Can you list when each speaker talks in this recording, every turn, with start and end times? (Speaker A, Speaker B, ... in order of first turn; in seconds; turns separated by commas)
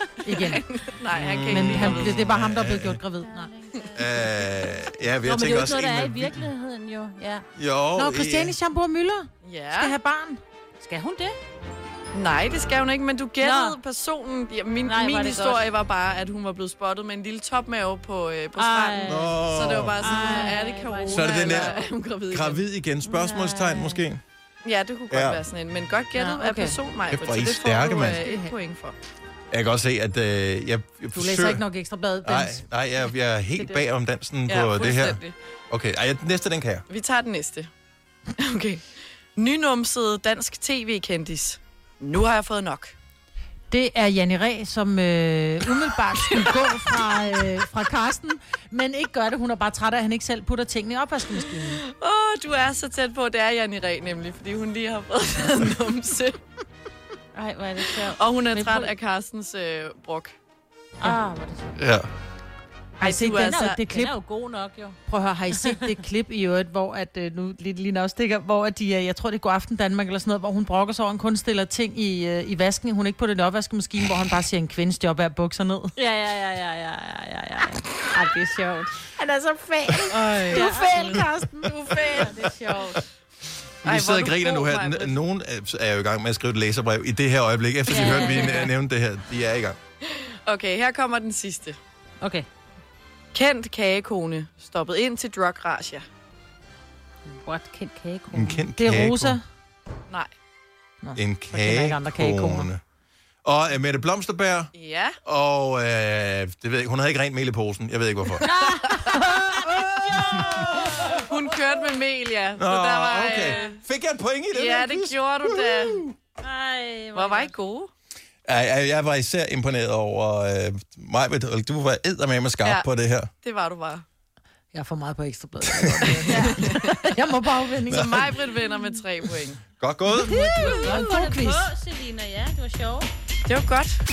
Speaker A: 0.2-0.7, Speaker B: 0.4-2.2, Speaker C: 1.1-3.0, Speaker A: 1.5-3.5, Speaker D: 3.2-4.3, Speaker C: 3.9-6.5, Speaker D: 5.2-7.5, Speaker C: 7.6-8.5, Speaker A: 8.0-10.4, Speaker B: 9.4-9.9, Speaker D: 10.8-11.3, Speaker B: 12.1-22.6, Speaker D: 13.4-13.8, Speaker D: 14.8-15.7, Speaker D: 18.6-21.8, Speaker C: 19.0-20.0, Speaker C: 21.1-21.7, Speaker C: 22.3-24.2, Speaker D: 23.1-24.0, Speaker B: 24.6-28.9, Speaker C: 25.1-25.4, Speaker A: 26.2-26.7, Speaker C: 27.1-28.2, Speaker C: 29.5-31.6, Speaker A: 31.1-32.6, Speaker C: 32.2-36.8, Speaker B: 34.5-35.3, Speaker B: 36.9-37.7, Speaker B: 38.4-42.9, Speaker A: 43.7-51.8, Speaker B: 46.3-46.6, Speaker B: 51.9-56.4, Speaker D: 57.3-58.9, Speaker B: 58.1-60.3, Speaker D: 61.0-61.8, Speaker C: 61.8-62.1, Speaker A: 63.0-64.2, Speaker B: 63.0-63.8, Speaker D: 63.2-65.0, Speaker A: 65.1-75.9, Speaker D: 76.0-83.0, Speaker A: 80.1-81.5, Speaker B: 81.6-83.0, Speaker C: 83.8-89.8, Speaker B: 83.8-85.2, Speaker D: 87.9-88.7, Speaker B: 88.1-88.6, Speaker B: 90.5-91.8, Speaker B: 93.3-96.0, Speaker D: 97.4-98.6, Speaker C: 98.3-99.4, Speaker A: 98.8-99.4, Speaker A: 101.0-102.7, Speaker C: 101.2-102.8, Speaker C: 103.4-104.7, Speaker B: 104.7-105.2, Speaker C: 105.2-108.5, Speaker D: 108.4-111.2, Speaker B: 111.0-113.8, Speaker C: 112.6-116.2, Speaker B: 114.5-116.0, Speaker D: 116.4-117.5, Speaker B: 117.1-117.9, Speaker C: 118.5-123.3, Speaker B: 123.4-124.0, Speaker A: 124.7-128.2, Speaker C: 125.6-126.1, Speaker B: 126.3-126.9, Speaker C: 127.9-128.3, Speaker B: 127.9-129.6, Speaker C: 129.8-130.8, Speaker A: 130.1-131.7, Speaker D: 130.5-133.1, Speaker B: 133.4-134.0